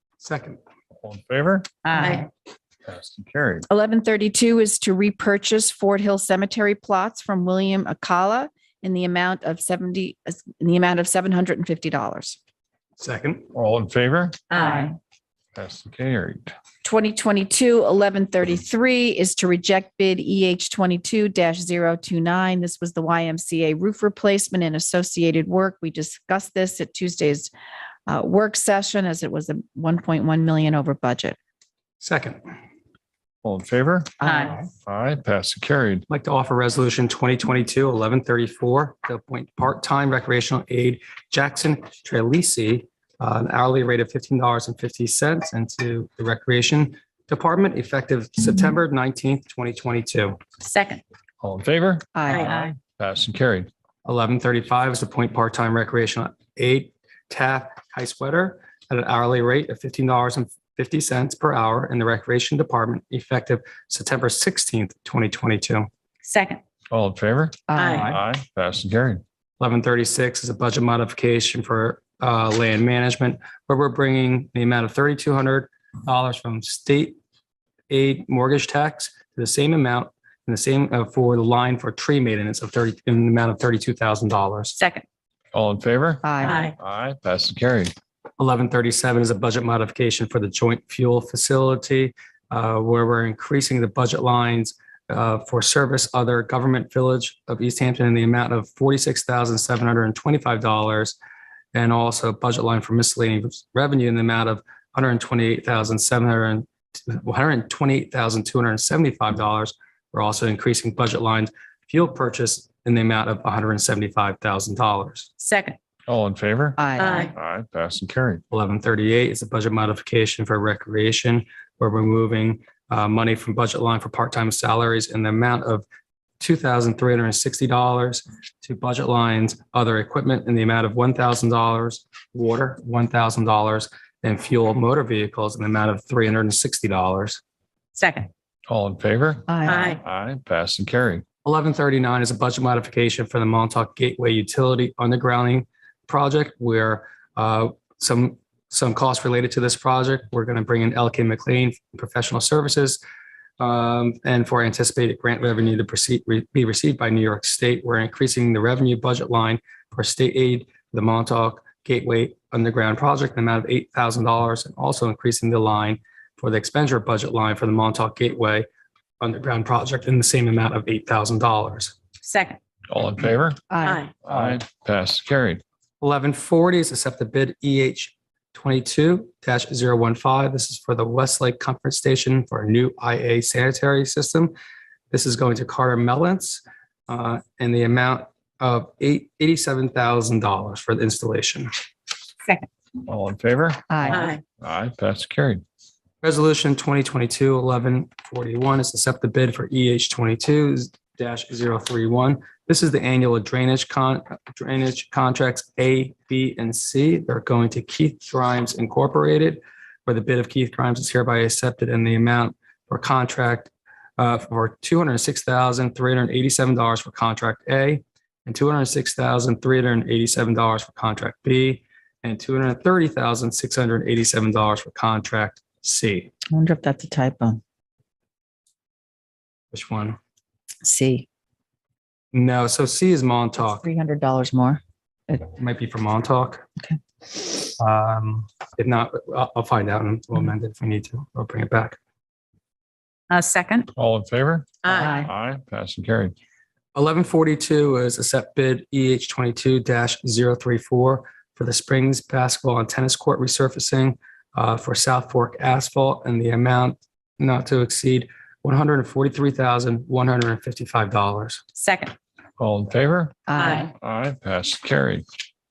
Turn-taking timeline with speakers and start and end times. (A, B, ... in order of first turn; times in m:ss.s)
0:00.2-0:00.6 A
0:01.0-0:01.8 B
0:01.8-0:02.3 C
0:01.9-0:02.3 D
0:02.9-0:03.7 B
0:03.7-0:12.4 C
0:13.0-0:13.5 A
0:13.5-0:14.4 B
0:14.5-0:14.9 D
0:14.6-0:14.9 C
0:15.5-0:16.5 B
0:16.8-0:27.5 C
0:28.1-0:31.4 C
0:32.0-0:32.4 A
0:33.4-0:36.1 B
0:34.2-0:34.6 C
0:34.2-0:34.6 D
0:36.1-0:50.4 A
0:50.6-0:51.0 D
0:51.4-0:53.7 B
0:52.2-0:52.7 C
0:52.3-0:52.7 D
0:54.0-1:05.9 A
1:06.2-1:06.6 D
1:06.9-1:09.2 B
1:07.7-1:08.2 C
1:07.8-1:08.2 D
1:09.6-1:17.2 A
1:17.9-1:24.8 A
1:24.8-1:25.0 D
1:25.5-1:27.9 B
1:26.2-1:26.6 C
1:26.4-1:26.8 D
1:28.4-1:41.2 A
1:41.7-1:55.3 A
1:55.4-1:55.8 D
1:56.1-1:56.8 B
1:56.8-1:57.3 C
1:57.0-1:57.3 D
1:57.3-1:58.4 B
1:58.5-2:05.8 A
2:06.4-2:17.4 A
2:18.0-2:18.3 D
2:18.7-2:21.2 B
2:19.5-2:20.0 C
2:19.7-2:20.0 D
2:21.4-2:33.0 A
2:33.6-2:48.7 A
2:49.2-2:52.0 A
2:52.2-2:52.6 D
2:52.9-2:53.6 B
2:53.7-2:54.1 C
2:53.8-2:54.1 D
2:54.2-2:55.6 B
2:54.3-2:54.6 A
2:56.0-3:04.5 A
3:05.1-3:11.7 A
3:13.1-3:15.6 B
3:13.9-3:14.3 C
3:14.1-3:14.4 D
3:16.2-3:46.3 A
3:46.5-3:47.6 C
3:49.7-3:50.2 A
3:50.8-3:51.3 C
3:52.3-3:53.9 A
3:53.6-3:55.4 C
3:55.5-3:56.7 A
3:57.8-4:02.0 A
4:03.3-4:03.9 D
4:04.0-4:06.3 B
4:04.8-4:05.3 D
4:04.9-4:05.3 C
4:07.0-4:21.6 A
4:21.8-4:22.2 D
4:22.6-4:23.4 B
4:23.5-4:23.9 C
4:23.6-4:23.9 D
4:24.0-4:25.2 B